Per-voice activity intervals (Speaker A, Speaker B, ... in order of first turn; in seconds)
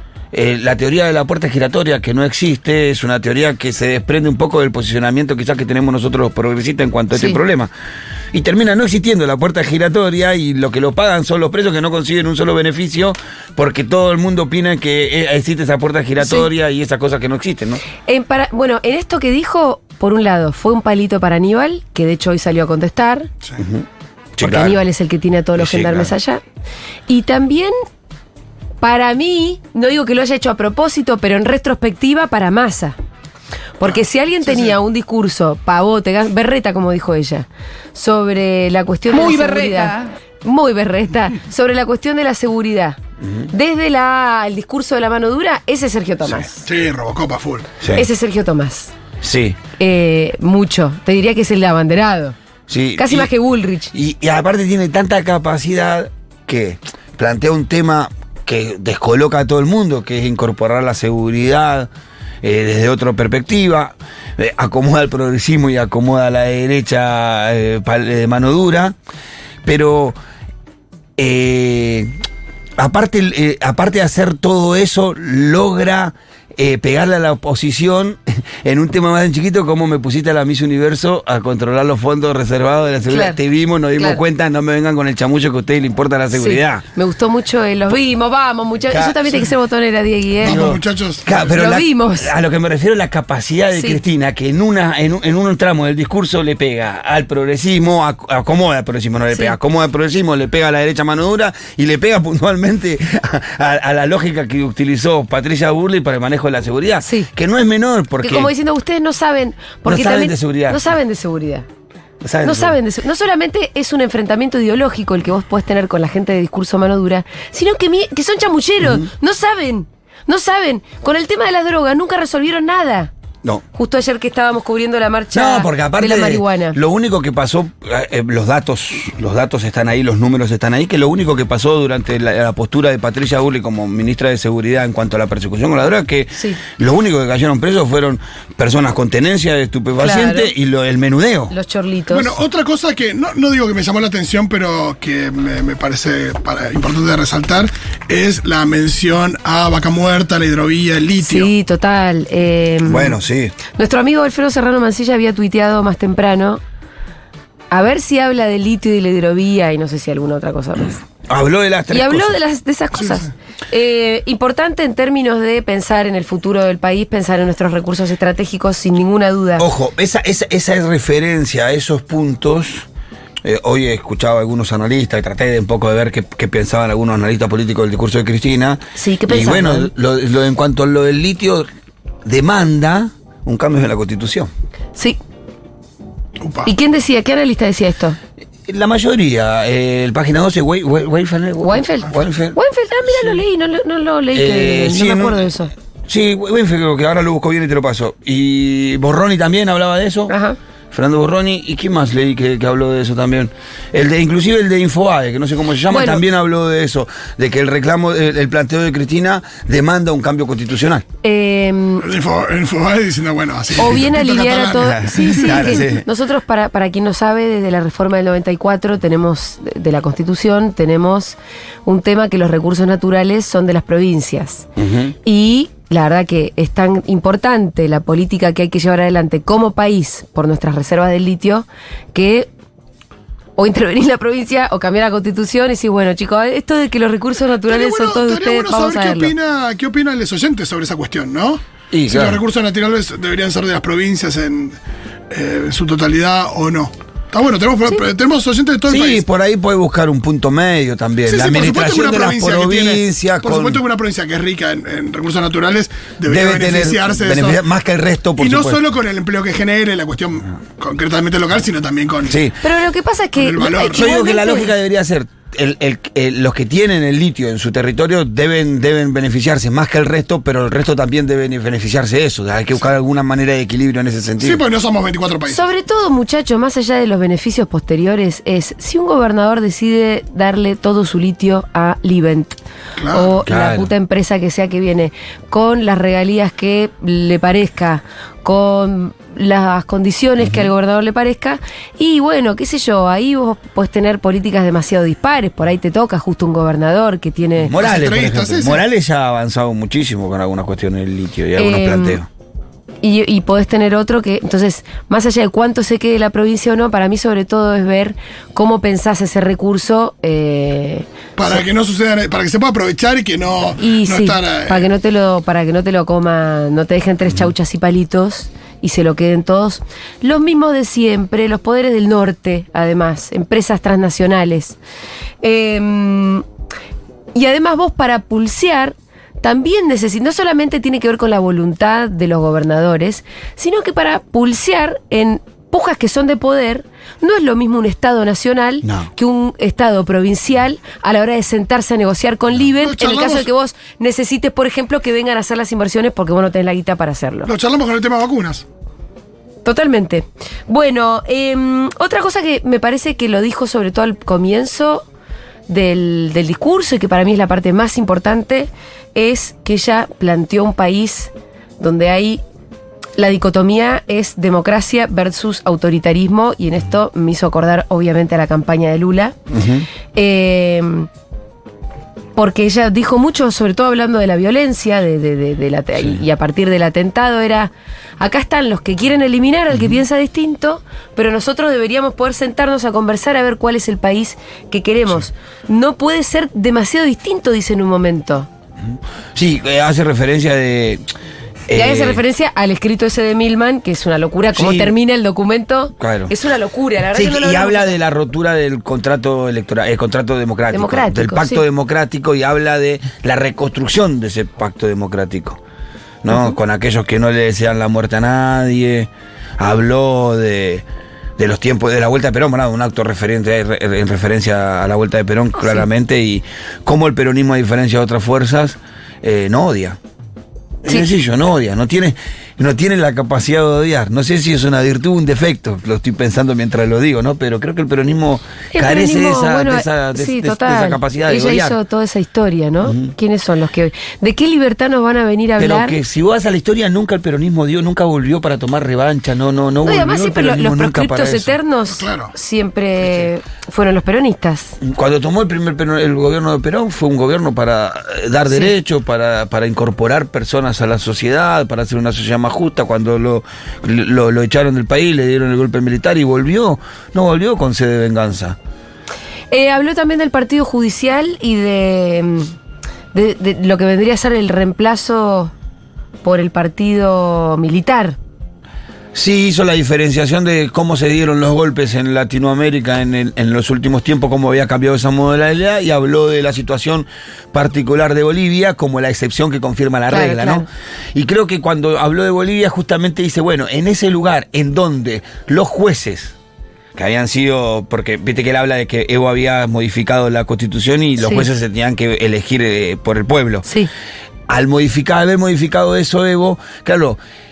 Speaker A: 0.3-7.7, 8.3-17.8, 23.6-24.8, 25.6-26.1, 43.2-43.5, 49.2-49.6, 52.7-53.3, 53.9-61.9, 62.4-69.0, 69.6-70.2, 71.2-72.1, 72.8-86.8, 88.9-89.5, 90.4-108.5, 109.8-110.8, 112.2-112.8, 125.3-141.5, 152.8-153.5, 161.3-162.4, 169.6-172.8, 173.4-181.7, 182.2-184.5, 188.7-192.6, 193.1-193.4, 194.3-195.5, 196.1-200.3, 200.9-211.0, 214.8-216.1, 224.8-225.1, 241.9-242.4, 248.8-253.8, 256.2-258.8, 262.3-262.6, 263.9-274.6, 283.4-283.9, 290.4-290.7, 297.6-302.3, 338.8-339.1, 369.5-369.9, 388.8-391.0, 391.7-392.2, 394.5-394.9, 396.0-396.3, 397.1-405.6, 406.2-410.8, 411.4-420.0, 420.8-431.8, 432.8-433.1, 435.6-441.5, 444.8-458.6, 469.1-486.3, 486.9-493.7, 494.5-497.2
Speaker B: 16.2-16.5, 18.1-23.3, 24.4-26.4, 27.1-27.7, 28.8-33.0, 33.8-43.0, 43.5-46.5, 47.9-48.9, 49.8-52.3, 53.0-53.9, 83.1-83.4, 83.9-84.2, 86.3-90.8, 91.3-92.3, 93.7-94.0, 108.2-111.7, 112.4-123.1, 123.7-126.8, 136.3-136.6, 140.0-140.5, 141.5-142.3, 151.2-153.2, 153.7-156.6, 157.7-161.0, 161.9-169.7, 178.9-179.9, 186.6-188.2, 191.6-195.7, 200.3-200.6, 205.9-206.2, 211.2-212.1, 213.8-224.7, 225.2-232.5, 233.6-239.3, 262.6-264.7, 275.5-282.6, 283.1-297.7, 301.6-302.2, 303.0-311.1, 313.8-324.8, 325.4-326.4, 327.3-347.5, 349.6-355.1, 355.7-362.4, 363.2-369.4, 370.1-371.1, 372.4-388.5, 391.7-398.0, 400.7-401.6, 428.7-436.0, 439.8-444.8, 459.5-462.5, 463.1-465.5, 466.2-468.2, 480.1-480.6, 491.2-491.5
Speaker C: 46.6-47.7, 90.4-91.5, 142.1-151.5, 186.4-186.7, 212.0-215.8, 237.7-244.8, 245.3-249.2, 251.3-257.6, 258.4-262.4, 263.4-264.1, 274.4-275.6, 283.0-283.3, 297.8-298.8, 311.4-314.9, 342.8-343.5, 347.4-348.6, 441.9-442.3